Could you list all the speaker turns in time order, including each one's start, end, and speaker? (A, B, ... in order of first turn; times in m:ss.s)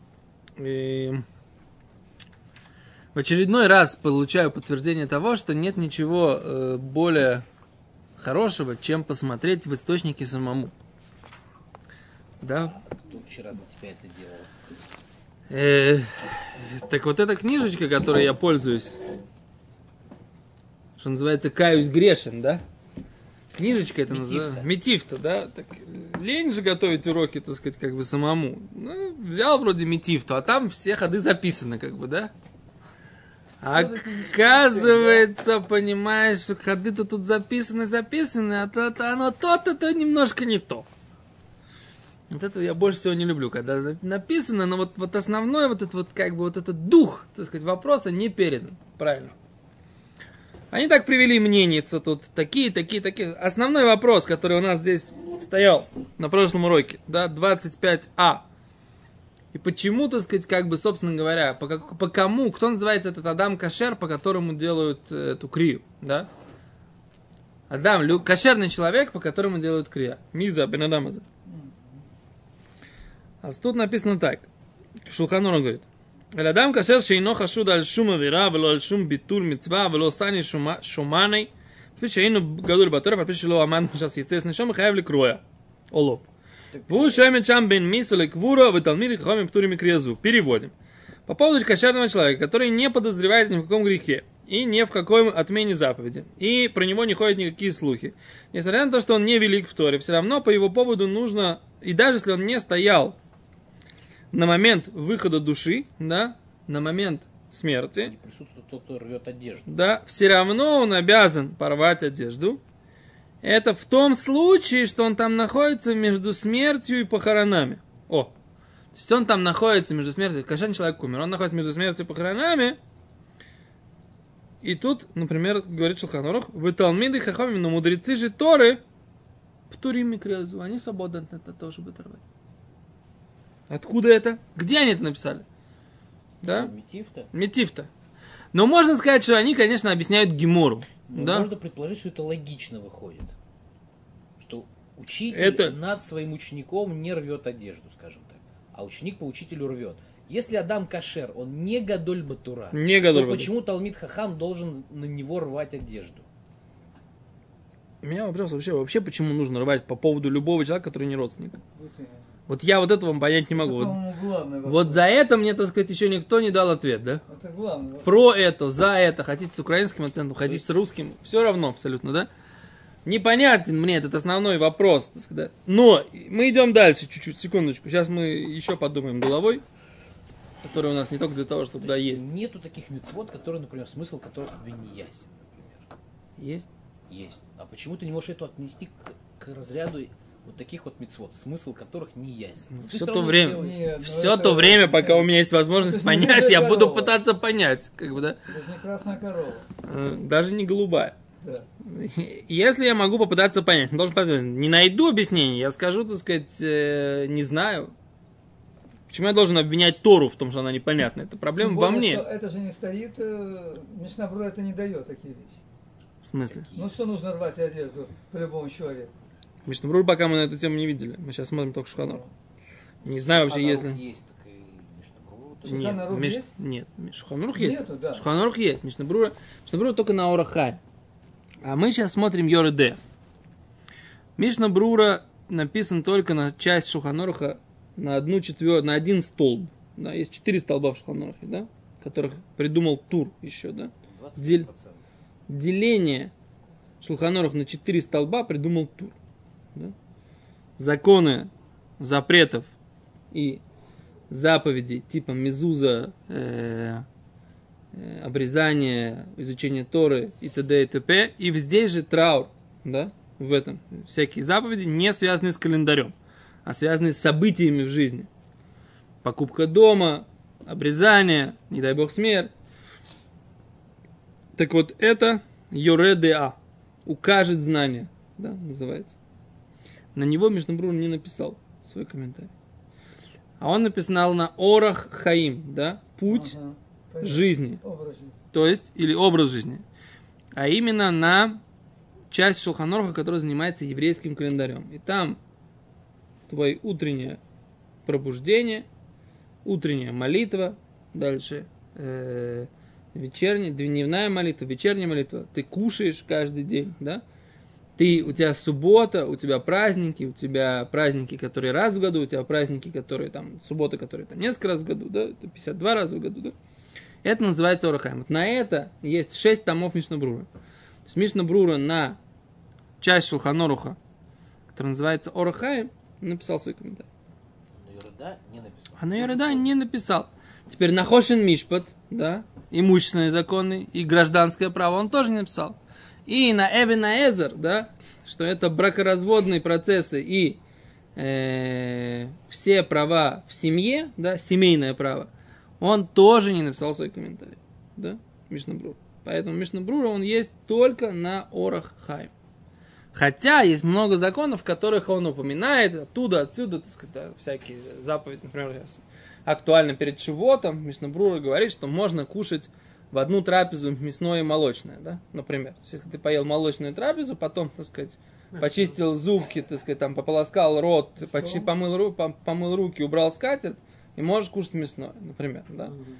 0:00.6-0:01.2 A
0:03.1-0:07.4 A
0:08.2-0:10.7 A
0:12.4-0:12.8 A
0:12.8-0:14.5 B
0:15.5-0:19.0 A
0:21.0-0:22.6 A
0:23.5-0:32.3 A
0:23.9-0:24.7 B
0:33.6-0:40.9 A
0:33.6-0:35.3 C
0:42.3-0:49.3 A
0:50.7-0:58.4 A
0:59.5-1:06.3 A
1:07.7-1:11.2 A
1:11.5-1:11.9 C
1:13.4-1:14.5 A
1:15.0-1:26.3 A
1:26.7-1:27.2 B
1:26.9-1:30.7 A
1:31.2-1:43.2 A
1:44.3-1:48.1 A
1:48.0-1:49.7 B
1:49.7-1:52.6 A
1:53.4-1:58.3 A
1:58.9-2:02.8 A
2:04.6-2:08.8 A
2:09.7-2:12.2 A
2:13.7-2:15.4 A
2:16.4-2:16.7 A
2:16.5-2:17.3 B
2:17.3-2:17.9 A
2:18.5-2:21.5 A
2:21.1-2:23.3 B
2:24.4-2:36.2 B
2:25.3-2:25.8 A
2:32.7-2:33.5 A
2:38.0-2:41.6 A
2:41.8-2:42.2 C
2:42.5-2:44.0 A
2:43.6-2:45.0 C
2:44.6-2:47.2 A
2:47.3-2:48.2 C
2:48.0-2:52.3 A
2:53.0-2:59.6 A
3:00.6-3:02.2 A
3:01.8-3:05.9 B
3:06.4-3:06.7 A
3:07.1-3:13.8 B
3:12.7-3:18.4 A
3:13.4-3:17.2 C
3:18.5-3:19.6 C
3:19.8-3:21.1 A
3:21.4-3:21.6 C
3:21.8-3:27.9 A
3:29.1-3:32.2 A
3:31.6-3:35.6 C
3:36.2-3:36.7 A
3:36.5-3:37.0 B
3:36.7-3:39.1 C
3:39.6-3:42.2 A
3:42.0-3:42.3 C
3:43.0-3:44.0 A
3:43.0-3:46.0 B
3:45.6-3:46.5 C
3:45.6-3:50.8 A
3:47.5-3:48.2 C
3:51.6-3:53.0 A
3:54.4-4:04.7 A
4:04.0-4:05.1 B
4:05.5-4:06.3 A
4:07.0-4:09.2 A
4:10.8-4:12.7 A
4:13.3-4:13.6 A
4:14.3-4:17.0 A
4:17.9-4:26.1 A
4:26.6-4:28.3 A
4:29.2-4:32.5 A
4:34.6-4:39.2 A
4:40.1-4:42.5 A
4:43.6-4:46.5 A
4:46.3-4:48.3 C
4:47.2-4:47.8 A
4:48.5-4:49.8 A
4:50.5-4:51.6 A
4:52.3-4:55.4 A
4:56.5-4:57.4 A
4:58.0-4:58.9 A
4:59.6-5:07.2 A
5:08.0-5:16.5 A
5:17.2-5:20.5 A
5:21.0-5:22.2 A
5:23.0-5:24.0 A
5:24.7-5:27.1 A
5:27.7-5:29.7 B
5:29.0-5:40.6 A
5:41.2-5:52.3 A
5:53.1-6:15.9 A
6:11.2-6:11.7 C